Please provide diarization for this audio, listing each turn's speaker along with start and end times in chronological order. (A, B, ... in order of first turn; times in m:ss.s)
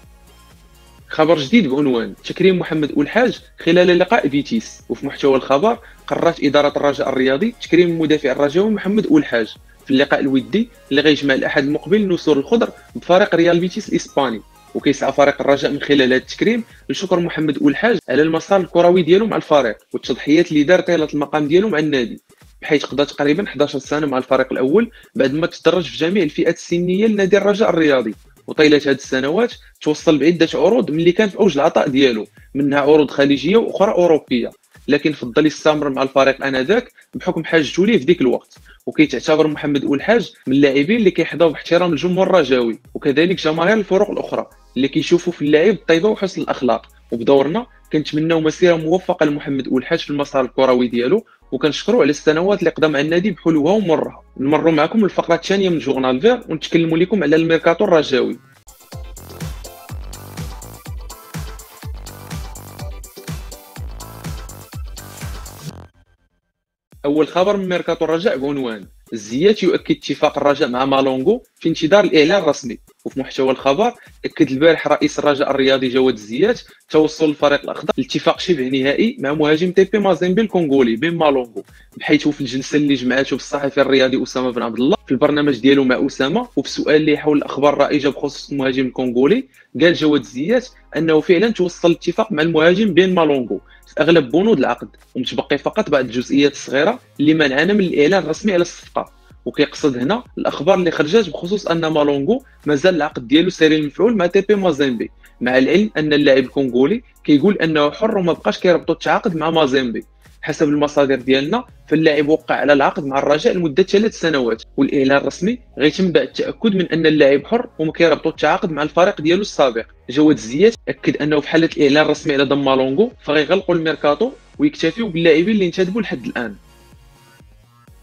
0:01.1-0:58.4 A
1:07.0-2:06.6 A